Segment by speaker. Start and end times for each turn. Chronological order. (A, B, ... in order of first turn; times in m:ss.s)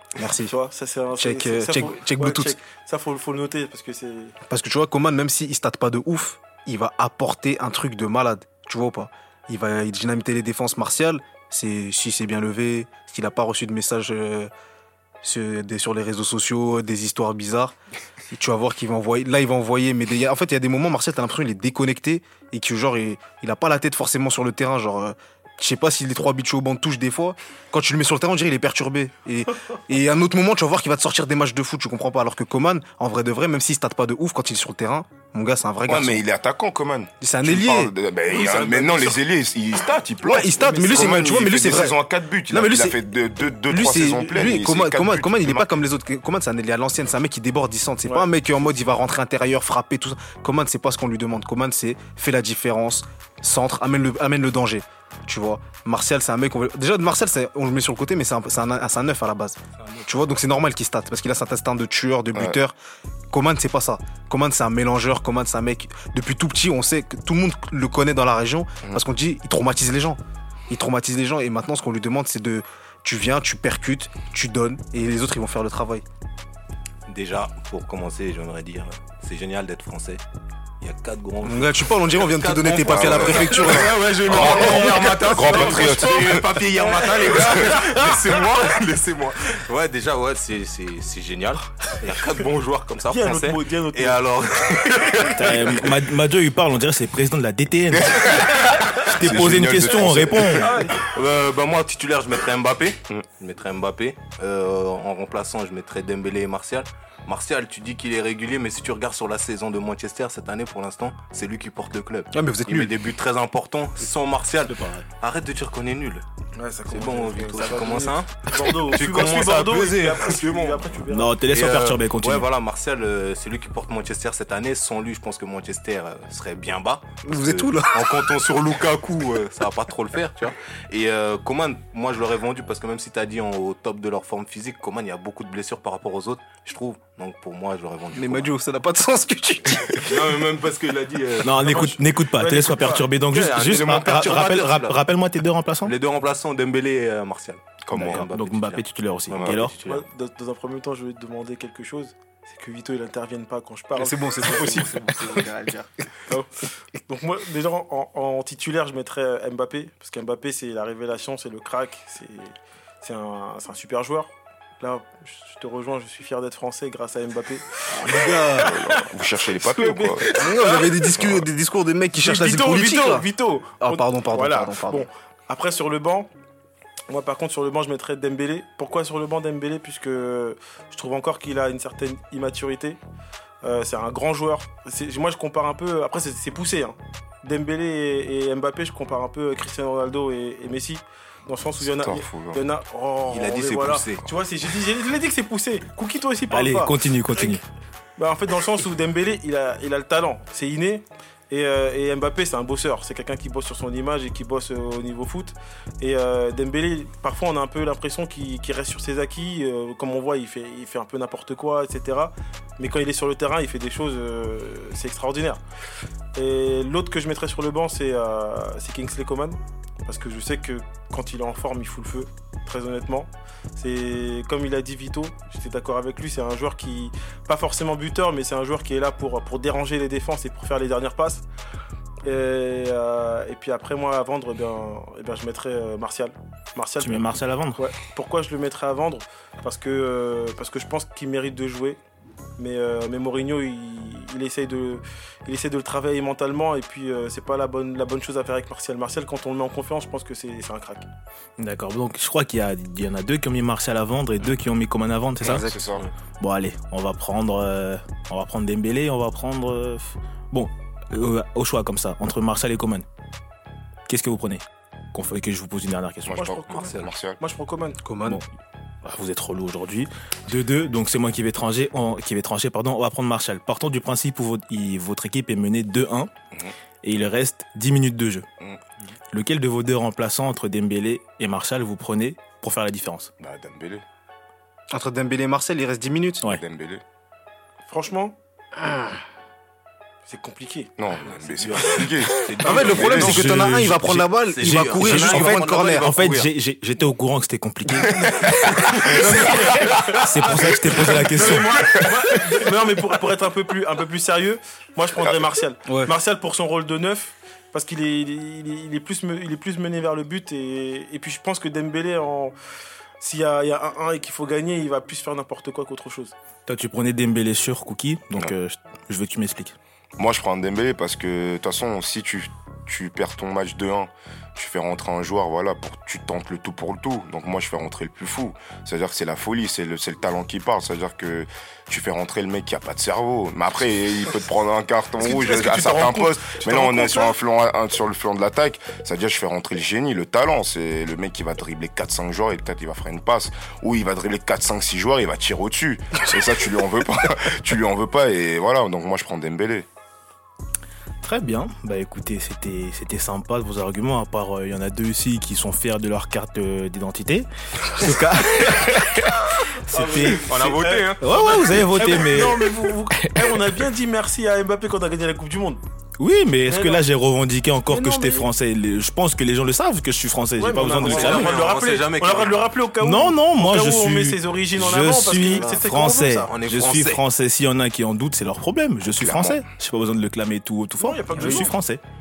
0:00.2-0:00.5 A
0:00.4-0:04.4 B
0:01.1-0:02.6 A
0:04.5-0:14.5 A
0:15.2-0:17.8 A
0:18.3-0:36.2 A
0:35.9-0:45.7 C
0:37.2-0:37.9 A
0:38.7-0:39.1 D
0:40.2-0:43.0 A
0:43.7-1:02.8 A
1:03.3-1:16.0 A
1:17.1-1:20.2 D
1:20.8-1:35.9 D
1:21.4-1:23.9 A
1:22.8-1:26.6 C
1:24.3-1:28.4 B
1:27.4-1:27.7 C
1:33.1-1:34.3 B
1:34.9-1:35.2 B
1:35.3-1:40.7 E
1:37.9-1:40.8 C
1:40.6-1:41.0 B
1:40.6-1:56.2 D
1:52.3-1:53.0 A
1:54.7-1:55.1 E
1:56.6-2:01.4 B
1:56.9-2:00.9 D
2:01.1-2:02.5 E
2:01.5-2:18.5 D
2:07.2-2:08.3 A
2:18.1-2:20.3 A
2:20.0-2:21.8 D
2:21.4-2:25.9 E
2:21.6-2:23.1 B
2:23.3-2:25.0 D
2:25.8-2:30.1 D
2:27.9-2:28.3 C
2:27.9-2:29.8 E
2:29.3-2:29.6 C
2:29.8-2:35.5 B
2:34.0-2:35.9 A
2:37.1-2:51.2 B
2:47.9-2:48.8 A
2:48.1-2:50.3 C
2:50.3-2:53.3 A
2:51.2-2:51.5 C
2:52.2-2:56.3 B
2:53.8-2:55.1 A
2:57.1-3:03.0 B
3:03.6-3:17.6 B
3:11.8-3:12.6 C
3:13.3-3:14.3 D
3:16.5-3:17.6 E
3:18.2-3:35.6 B
3:36.4-3:51.4 B
3:52.3-4:02.0 B
3:57.0-3:57.8 E
4:02.6-4:11.1 B
4:11.6-4:15.7 E
4:15.4-4:16.1 C
4:16.4-4:23.1 E
4:24.1-4:26.6 E
4:26.3-4:27.4 C
4:26.3-4:28.0 B
4:26.7-4:27.1 D
4:28.0-4:28.4 A
4:29.0-4:36.3 E
4:37.0-4:38.5 E
4:39.3-4:43.3 E
4:43.4-4:44.0 C
4:44.9-4:46.4 A
4:46.4-4:47.0 C
4:47.9-4:48.4 B
4:50.2-4:50.9 B
4:51.0-4:53.4 C
4:51.4-4:53.4 D
4:52.6-4:56.2 A
4:53.2-4:54.3 E
4:54.2-4:56.5 D
4:54.9-4:58.3 E
4:58.1-5:12.6 B
4:58.3-4:58.7 C
4:59.0-4:59.5 E
4:59.3-5:00.1 D
5:00.1-5:01.7 E
5:01.9-5:02.6 C
5:13.2-5:16.3 B
5:16.7-5:19.8 E
5:20.2-5:49.9 C
5:35.2-5:37.4 B
5:51.2-6:03.6 E
5:59.9-6:05.8 B
6:00.2-6:01.9 D
6:06.2-6:11.6 E
6:06.7-6:07.0 B
6:07.9-6:08.5 B
6:10.6-6:16.5 B
6:10.9-6:12.7 D
6:13.0-6:22.0 E
6:16.4-6:17.2 D
6:19.2-6:19.6 C
6:21.0-6:21.8 B
6:21.4-6:21.6 A